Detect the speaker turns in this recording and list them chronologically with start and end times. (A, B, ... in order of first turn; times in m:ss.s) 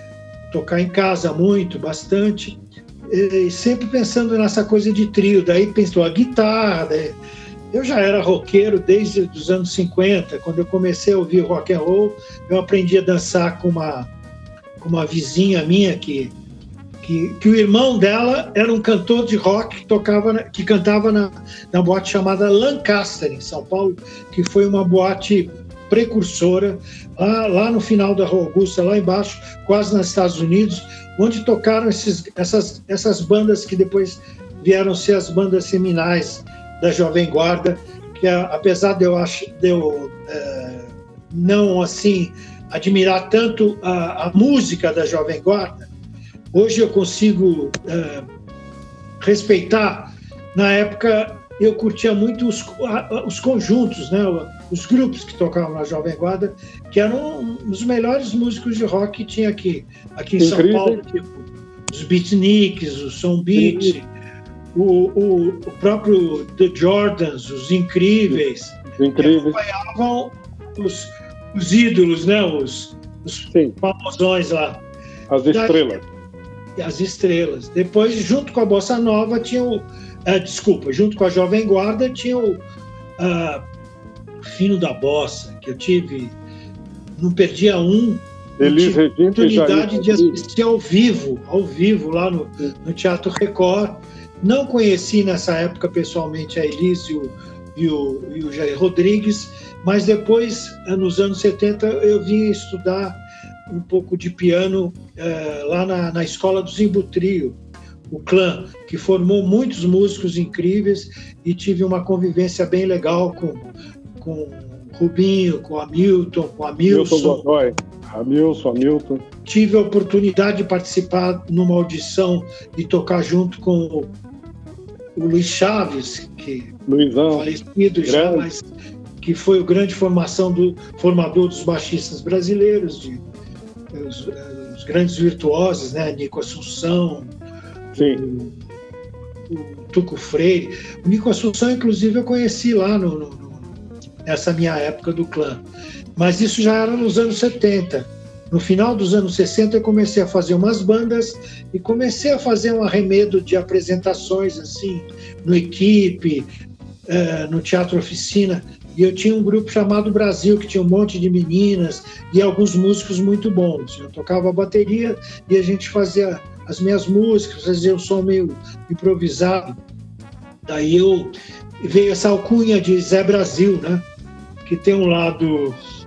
0:00.5-0:07.2 A
0:07.7-0:14.1 A
0:14.8-0:16.3 A
0:17.0-0:45.9 A
0:46.5-0:48.3 A
0:49.2-1:04.1 A
1:00.4-1:01.0 B
1:03.6-1:04.0 B
1:04.7-1:14.8 A
1:09.0-1:09.6 B
1:15.3-1:16.0 B
1:15.5-1:16.0 A
1:16.8-1:22.6 A
1:23.2-1:23.7 A
1:24.4-1:26.4 A
1:27.2-1:47.6 A
1:28.6-1:30.4 B
1:48.1-1:57.4 A
1:56.9-1:59.2 B
1:59.4-2:04.1 A
2:05.2-2:06.8 A
2:06.9-2:07.5 B
2:07.3-2:08.7 A
2:08.0-2:08.5 B
2:09.2-2:13.2 A
2:13.9-2:17.3 A
2:17.9-2:18.6 A
2:18.0-2:18.2 B
2:19.5-2:25.6 A
2:26.2-2:36.5 A
2:37.1-2:49.8 A
2:50.6-2:54.1 A
2:54.6-2:55.8 A